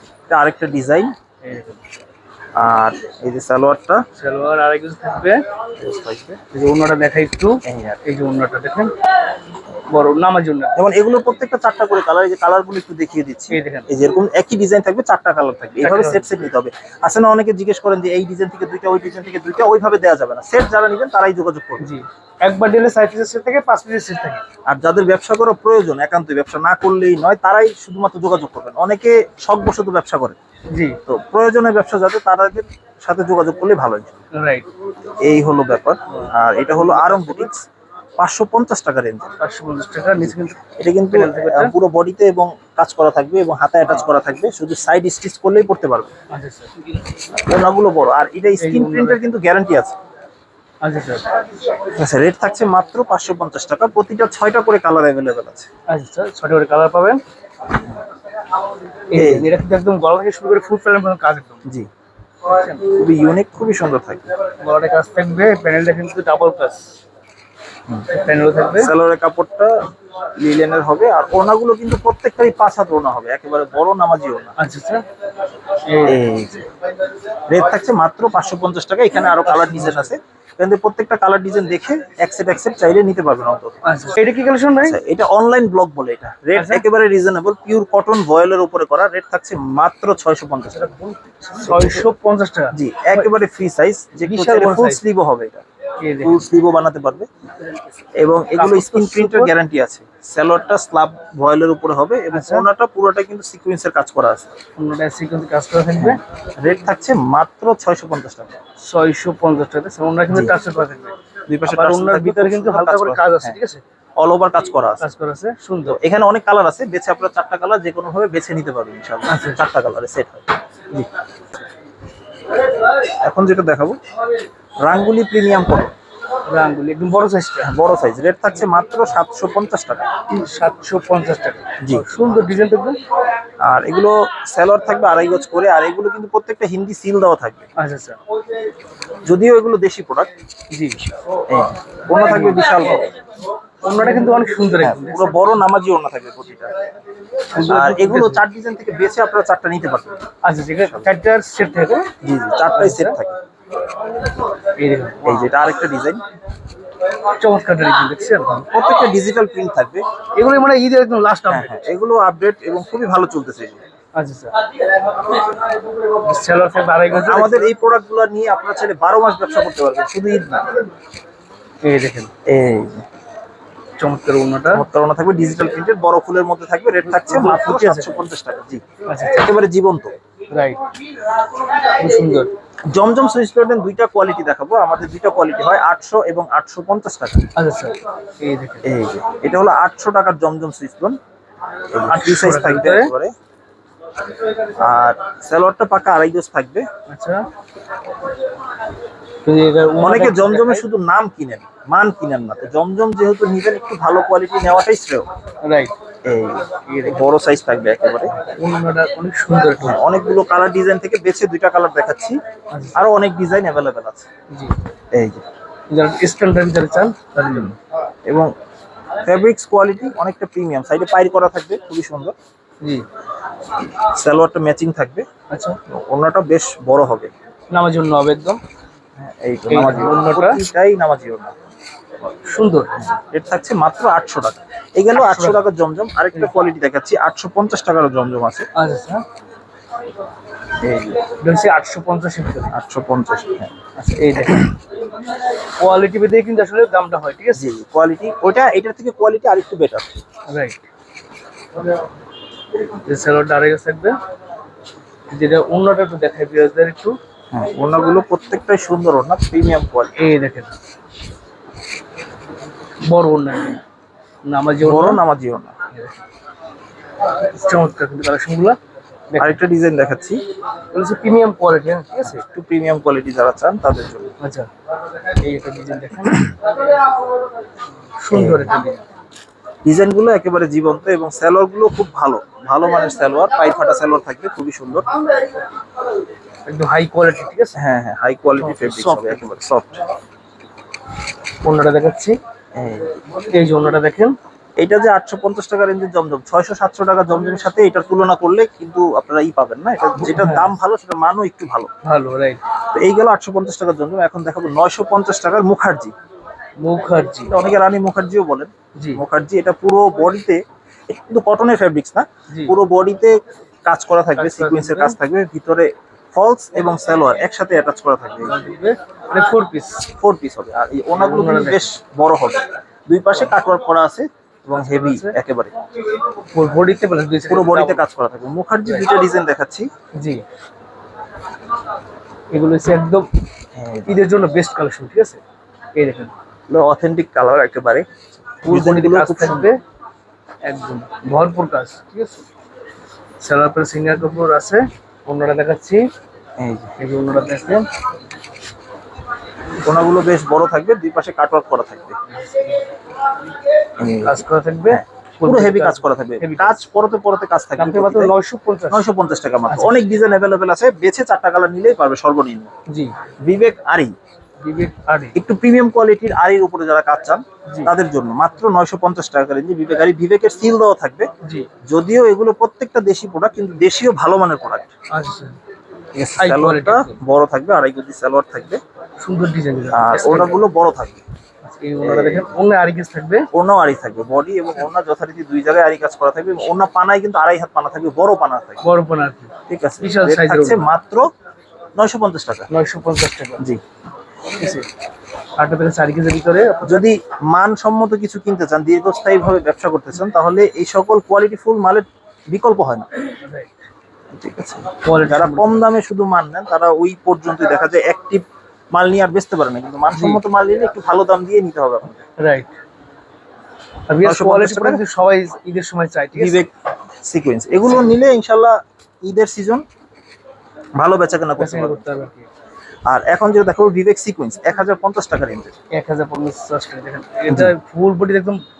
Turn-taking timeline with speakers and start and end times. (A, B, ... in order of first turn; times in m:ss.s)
0:00.3-0:01.1 A
0:01.4-0:01.8 B
0:02.6-0:04.0 A
0:04.2-0:05.4 B
0:05.8-0:06.4 A
0:06.5-0:08.9 B
0:07.6-0:08.0 A
0:09.9-0:10.8 B
0:10.8-0:21.9 A
0:13.5-0:13.9 B
0:15.8-0:16.3 B
0:21.8-0:24.4 B
0:24.6-0:30.4 A
0:30.7-0:31.0 B
0:31.1-0:34.2 A
0:34.3-0:34.7 B
0:35.2-0:37.6 A
0:36.1-0:37.5 B
0:38.2-0:39.3 A
0:39.4-0:41.7 B
0:40.2-0:46.1 A
0:46.3-0:46.7 B
0:47.3-0:49.9 A
0:48.6-0:49.2 B
0:50.8-0:51.4 B
0:51.8-0:55.7 A
0:55.9-0:57.2 B
0:59.1-1:01.6 B
0:59.1-0:59.6 A
1:02.7-1:04.3 A
1:04.6-1:06.9 B
1:08.1-1:08.9 B
1:08.8-1:09.7 A
1:10.4-1:14.5 A
1:14.6-1:15.0 B
1:15.8-1:16.2 B
1:16.0-1:16.7 A
1:17.5-1:23.8 A
1:19.4-1:20.1 B
1:23.8-1:25.0 B
1:24.8-1:31.0 A
1:26.5-1:26.8 B
1:31.5-1:32.1 A
1:31.6-1:33.3 B
1:32.7-1:35.6 A
1:34.3-1:35.0 B
1:36.0-1:36.4 B
1:36.2-1:37.2 A
1:38.2-1:44.6 A
1:38.5-1:39.5 B
1:42.3-1:42.7 B
1:44.8-1:46.2 B
1:46.0-1:48.5 A
1:48.8-1:51.2 B
1:51.5-1:53.6 A
1:51.7-1:53.8 B
1:54.2-1:55.0 A
1:55.0-1:56.0 B
1:55.8-2:01.1 A
1:59.3-1:59.6 B
2:02.9-2:04.0 A
2:04.8-2:05.9 A
2:06.5-2:07.8 B
2:07.6-2:10.1 A
2:10.3-2:13.0 B
2:13.6-2:17.6 A
2:17.8-2:18.2 B
2:19.2-2:20.3 A
2:20.7-2:21.0 B
2:21.5-2:23.1 A
2:22.2-2:22.8 B
2:23.8-2:25.5 B
2:24.8-2:26.7 A
2:27.5-2:28.4 B
2:27.6-2:30.2 A
2:30.4-2:32.1 B
2:32.2-2:33.4 A
2:32.8-2:33.2 B
2:34.8-2:35.5 B
2:35.2-2:36.2 A
2:37.4-2:38.6 B
2:38.5-2:40.0 A
2:40.4-2:41.9 B
2:41.5-2:43.8 A
2:44.1-2:44.6 B
2:46.2-2:47.7 B
2:47.1-2:50.8 A
2:51.8-2:52.3 B
2:52.4-2:53.0 A
2:54.0-2:54.8 B
2:54.7-3:00.2 A
2:57.0-2:58.2 B
2:59.0-2:59.5 B
3:00.5-3:00.8 B
3:01.8-3:02.5 B
3:02.9-3:07.5 A
3:07.6-3:08.8 B
3:08.8-3:11.2 A
3:11.9-3:13.3 A
3:12.0-3:13.1 B
3:14.7-3:16.9 A
3:17.1-3:17.4 B
3:19.4-3:20.8 B
3:20.0-3:25.3 A
3:25.6-3:25.9 B
3:26.2-3:28.3 A
3:26.8-3:27.2 B
3:28.4-3:30.0 B
3:29.8-3:32.4 A
3:32.7-3:33.0 B
3:32.9-3:34.2 A
3:35.1-3:35.4 A
3:35.9-3:37.7 B
3:37.4-3:37.8 A
3:39.2-3:42.3 A
3:44.0-3:45.2 A
3:45.5-3:45.8 B
3:45.9-3:47.3 A
3:47.7-3:48.6 B
3:49.2-3:51.5 A
3:49.7-3:50.6 B
3:52.4-3:53.0 B
3:53.0-3:58.7 A
3:55.2-3:55.6 B
3:58.7-3:59.2 B
4:00.8-4:01.2 A
4:01.2-4:02.7 B
4:02.7-4:04.8 A
4:04.0-4:04.6 B
4:05.8-4:07.7 B
4:07.5-4:10.1 A
4:10.5-4:10.8 B
4:13.0-4:14.2 B
4:15.3-4:17.2 B
4:17.5-4:20.1 A
4:20.2-4:20.7 B
4:23.0-4:23.8 B
4:24.4-4:25.2 B
4:24.8-4:25.8 A
4:27.4-4:28.8 B
4:29.3-4:29.6 B
4:29.4-4:30.4 A
4:30.9-4:32.4 B
4:32.2-4:34.3 A
4:34.4-4:34.7 B
4:35.3-4:36.8 B
4:38.2-4:39.0 B
4:38.3-4:38.7 A
4:39.8-4:45.1 A
4:46.6-4:47.8 B
4:47.8-4:50.0 A
4:48.6-4:49.6 B
4:51.6-4:52.4 B
4:52.8-4:53.2 A
4:53.4-4:54.4 B
4:54.8-5:01.9 A
5:00.2-5:00.7 B
5:02.0-5:02.6 B
5:02.9-5:06.1 A
5:06.8-5:07.5 B
5:07.5-5:18.5 A
5:12.5-5:12.7 B
5:14.4-5:15.2 B
5:18.4-5:20.0 B
5:20.0-5:25.7 A
5:21.1-5:21.9 B
5:24.7-5:25.3 B
5:26.5-5:28.0 B
5:27.5-5:29.9 A
5:30.2-5:30.4 B
5:32.5-5:33.3 B
5:33.8-5:34.2 A
5:34.1-5:35.4 B
5:36.0-5:36.3 B
5:36.7-5:39.7 A
5:38.6-5:39.8 B
5:40.6-5:42.4 B
5:43.4-5:46.0 B
5:46.6-5:46.9 A
5:47.0-5:47.8 B
5:49.8-5:52.2 A
5:52.4-5:52.7 B
5:54.0-5:58.3 A
5:54.2-5:56.8 B
5:57.8-5:59.0 B
5:58.9-6:02.7 A
5:59.7-6:00.0 B
6:02.9-6:03.1 B
6:03.4-6:04.1 A
6:04.6-6:05.3 B
6:05.3-6:11.3 A
6:11.9-6:14.9 A
6:15.1-6:15.6 B
6:16.1-6:18.8 A
6:16.4-6:17.2 B
6:19.2-6:20.6 B
6:19.9-6:21.2 A
6:21.6-6:23.5 B
6:22.0-6:22.5 A
6:23.5-6:28.8 A
6:28.8-6:30.8 B
6:29.7-6:31.3 A
6:32.0-6:32.7 A
6:32.7-6:33.6 B
6:34.6-6:34.9 B
6:35.6-6:37.0 B
6:36.8-6:43.1 A
6:43.4-6:43.7 B
6:44.3-6:52.2 A
6:45.0-6:45.8 B
6:50.1-6:50.4 B
6:52.4-6:52.8 B
6:54.1-6:56.6 B
6:54.2-6:55.0 A
6:56.3-6:56.7 A
6:57.2-6:59.8 A
7:01.0-7:02.1 A
7:01.6-7:02.5 B
7:03.1-7:05.7 A
7:05.9-7:08.6 B
7:07.5-7:07.7 A